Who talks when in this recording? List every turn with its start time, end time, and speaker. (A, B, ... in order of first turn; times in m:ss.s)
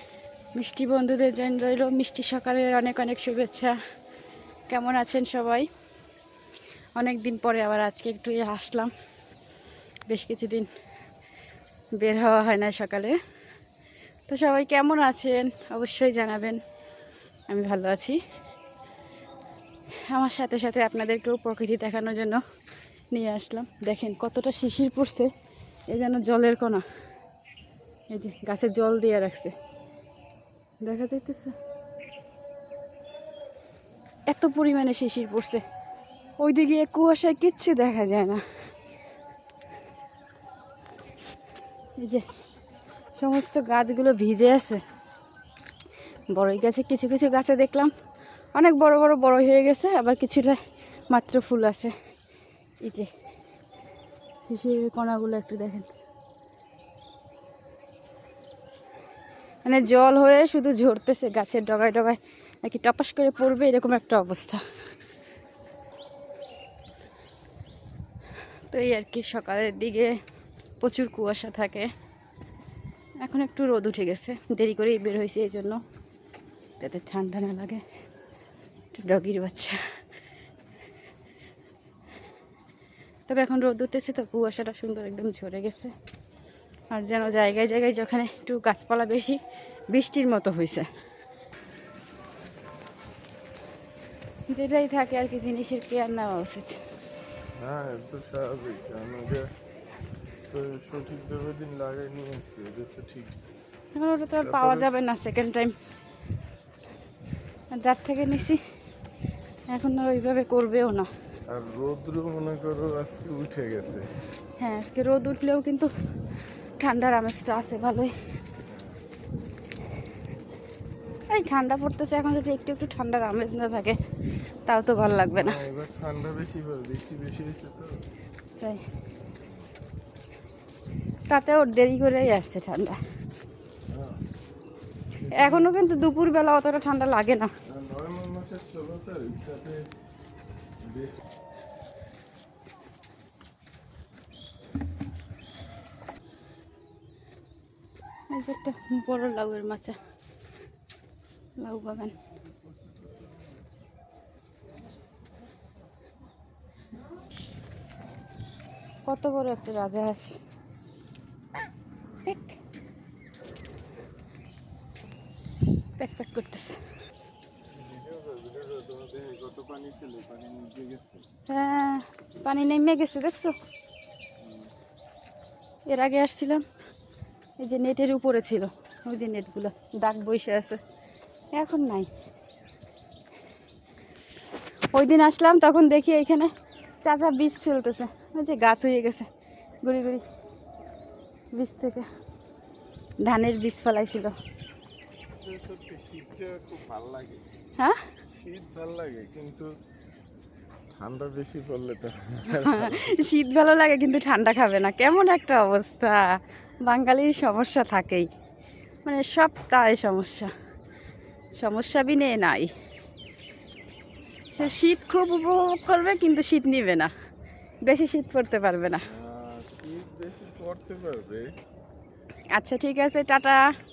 0:00.6-0:03.8 A
0:04.7-0:05.7 A
0:07.0-0:08.9 A
0:10.1-0:10.7 A
0:12.0-0:13.2 A
0:14.3-0:16.6 A
0:17.5-0:18.2 A
0:20.1-0:22.4 A
0:23.1-0:25.3 A
0:25.9-0:26.8 A
0:28.1-0:29.5 A
0:30.8-0:31.6 A
0:34.3-0:35.6 A
0:36.4-0:38.4 A
0:42.0-0:42.2 A
0:43.2-0:44.8 A
0:46.3-0:47.9 A
0:48.6-0:51.9 A
0:54.4-0:55.9 A
0:59.6-1:04.6 A
1:08.7-1:10.1 A
1:10.8-1:11.9 A
1:13.2-1:15.8 A
1:16.8-1:17.8 A
1:18.9-1:19.8 A
1:23.3-1:25.9 A
1:26.9-1:29.4 A
1:29.9-1:30.9 A
1:34.5-1:36.8 A
1:37.6-1:39.5 B
1:40.5-1:43.3 B
1:44.0-1:45.8 A
1:44.4-1:44.9 B
1:47.7-1:48.6 A
1:49.7-1:51.1 A
1:51.5-1:54.0 B
1:54.6-1:55.9 A
1:56.8-1:58.1 A
2:01.3-2:04.0 A
2:04.7-2:05.6 A
2:05.3-2:07.9 B
2:11.3-2:13.0 A
2:13.9-2:14.2 B
2:15.2-2:15.8 B
2:15.3-2:17.5 A
2:17.7-2:19.9 B
2:20.8-2:21.2 B
2:28.3-2:30.0 A
2:31.6-2:32.1 A
2:39.1-2:40.4 A
2:42.3-2:42.5 A
2:46.0-2:46.8 A
2:47.7-2:51.2 B
2:51.5-2:53.6 A
2:54.4-2:54.7 B
2:55.9-2:56.6 A
2:57.6-3:00.8 A
3:01.5-3:02.1 A
3:04.9-3:06.5 A
3:07.0-3:09.3 A
3:09.8-3:10.2 A
3:11.6-3:12.1 A
3:13.2-3:14.3 A
3:15.4-3:17.4 B
3:18.3-3:19.7 B
3:20.9-3:23.2 B
3:22.5-3:26.2 A
3:26.9-3:28.3 A
3:29.0-3:30.5 A
3:31.6-3:32.7 A
3:34.5-3:37.1 A
3:37.8-3:39.0 A
3:39.0-3:41.5 B
3:42.6-3:43.6 A